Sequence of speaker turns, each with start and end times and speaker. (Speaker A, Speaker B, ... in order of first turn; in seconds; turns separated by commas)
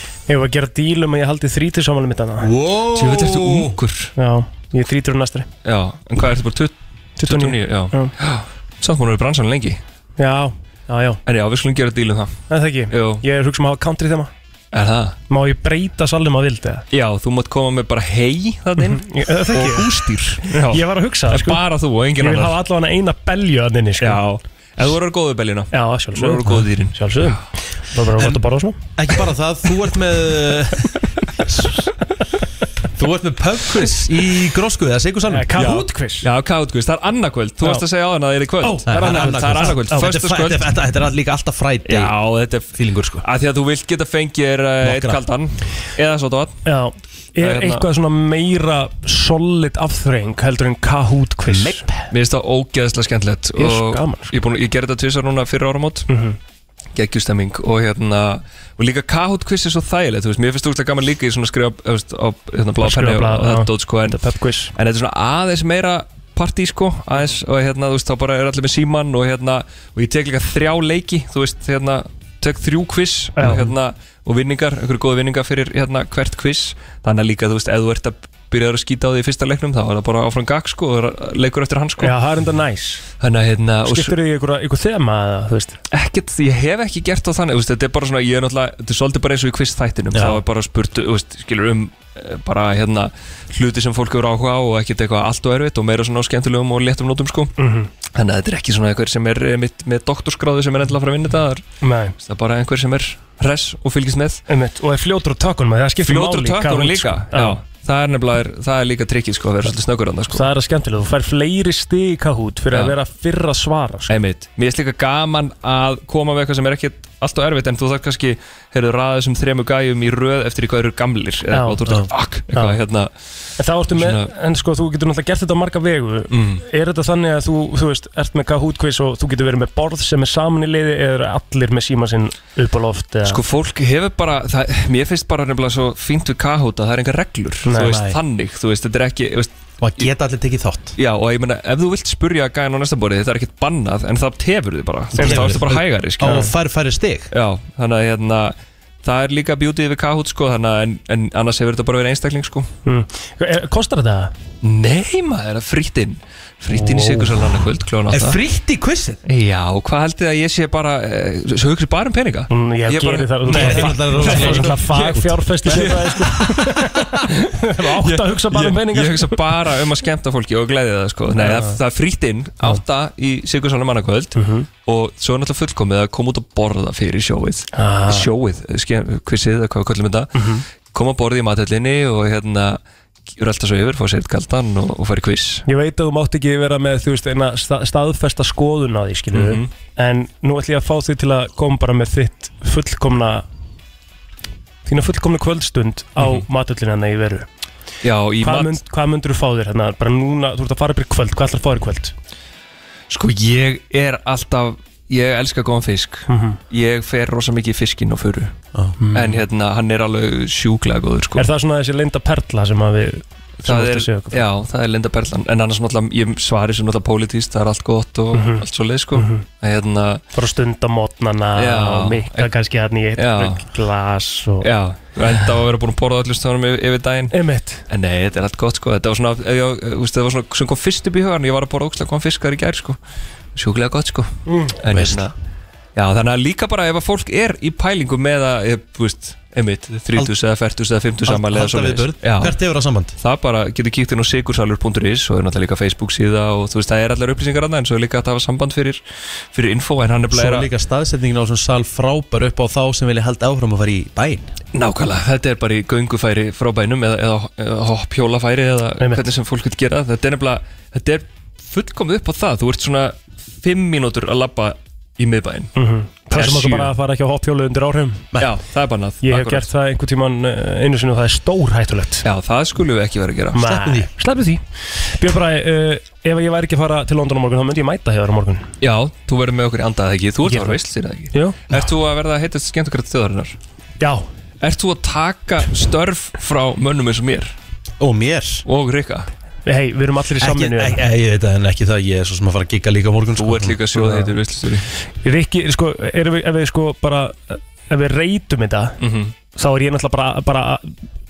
Speaker A: 0.3-2.5, Speaker B: 2.4-3.8, Speaker C: 2.9-4.1, Speaker A: 4.2-5.5, Speaker C: 5.6-9.8, Speaker A: 7.2-8.1, Speaker A: 10.2-11.2, Speaker C: 11.2-13.2, Speaker A: 12.5-14.3, Speaker C: 14.7-15.2, Speaker A: 15.3-16.8, Speaker C: 16.9-22.6, Speaker A: 18.8-21.6, Speaker A: 22.2-24.2, Speaker C: 24.0-27.4, Speaker A: 25.7-28.9, Speaker B: 28.9-30.9, Speaker B: 31.4-31.8, Speaker B: 33.0-35.8, Speaker A: 35.3-36.3, Speaker C: 35.6-40.6, Speaker A: 38.6-40.1, Speaker B: 38.8-42.2, Speaker C: 41.8-46.6, Speaker B: 42.7-43.2, Speaker B: 44.8-45.2, Speaker A: 46.6-51.8, Speaker C: 47.4-47.9, Speaker B: 51.5-52.1, Speaker C: 52.1-56.1, Speaker A: 53.6-54.3, Speaker A: 56.1-56.4, Speaker C: 56.9-64.2, Speaker A: 62.8-64.7, Speaker C: 64.7-82.2, Speaker A: 73.4-73.7, Speaker A: 82.0-83.0, Speaker C: 83.2-84.2, Speaker A: 83.8-85.8, Speaker C: 85.9-97.5, Speaker A: 97.6-97.9, Speaker C: 98.1-101.7, Speaker A: 101.8-102.1, Speaker C: 102.2-104.4, Speaker A: 104.5-107.6, Speaker C: 106.0-110.5, Speaker A: 110.3-114.1, Speaker C: 112.7-113.0, Speaker C: 114.1-123.1, Speaker A: 121.5-121.8, Speaker A: 122.5-122.8, Speaker A: 123.6-133.4, Speaker C: 123.9-124.3, Speaker C: 126.3-126.6, Speaker C: 133.2-140.1, Speaker A: 137.6-138.0, Speaker B: 137.8-138.2, Speaker B: 139.8-140.9, Speaker C: 141.0-146.5, Speaker A: 145.2-145.6, Speaker B: 145.2-147.3, Speaker A: 146.2-146.5, Speaker C: 147.3-152.7, Speaker A: 152.8-154.3, Speaker C: 154.6-158.4, Speaker A: 156.7-157.3, Speaker B: 158.1-159.2, Speaker C: 159.2-167.0, Speaker A: 162.5-169.4, Speaker B: 163.5-166.0, Speaker C: 167.8-182.8, Speaker A: 171.4-171.8, Speaker A: 174.3-174.7, Speaker A: 177.7-178.3, Speaker A: 180.3-180.6, Speaker C: 183.3-185.6, Speaker A: 185.7-193.4, Speaker C: 189.3-189.7, Speaker A: 194.8-197.5, Speaker C: 196.2-196.4, Speaker C: 198.0-198.8, Speaker A: 198.4-202.1, Speaker C: 203.1-208.5, Speaker A: 206.3-206.6, Speaker A: 209.0-209.4, Speaker C: 209.1-211.5, Speaker A: 211.3-214.4, Speaker C: 213.6-220.2, Speaker A: 218.3-219.4, Speaker A: 220.3-224.7, Speaker C: 221.5-222.5, Speaker C: 223.2-223.6, Speaker C: 224.6-227.3, Speaker A: 227.3-227.8, Speaker C: 227.9-233.0, Speaker C: 233.5-235.3, Speaker A: 234.5-234.8, Speaker B: 234.9-235.3, Speaker C: 235.9-242.6, Speaker B: 241.2-243.2, Speaker C: 243.2-249.0, Speaker C: 249.5-250.7, Speaker B: 250.3-254.5, Speaker C: 254.7-265.7, Speaker A: 265.8-268.3, Speaker C: 266.3-266.9, Speaker C: 268.4-269.7, Speaker A: 269.2-272.2, Speaker C: 272.2-273.7, Speaker A: 273.5-278.7, Speaker B: 273.6-274.1, Speaker C: 278.8-283.6, Speaker A: 280.4-280.8, Speaker A: 281.3-281.6, Speaker A: 284.0-284.2, Speaker C: 284.6-287.5, Speaker B: 288.0-288.6, Speaker C: 288.6-289.3, Speaker A: 289.6-291.0, Speaker B: 290.4-293.8, Speaker C: 293.3-294.9, Speaker A: 293.9-294.3, Speaker A: 295.2-299.0, Speaker C: 299.0-299.4, Speaker A: 299.5-300.9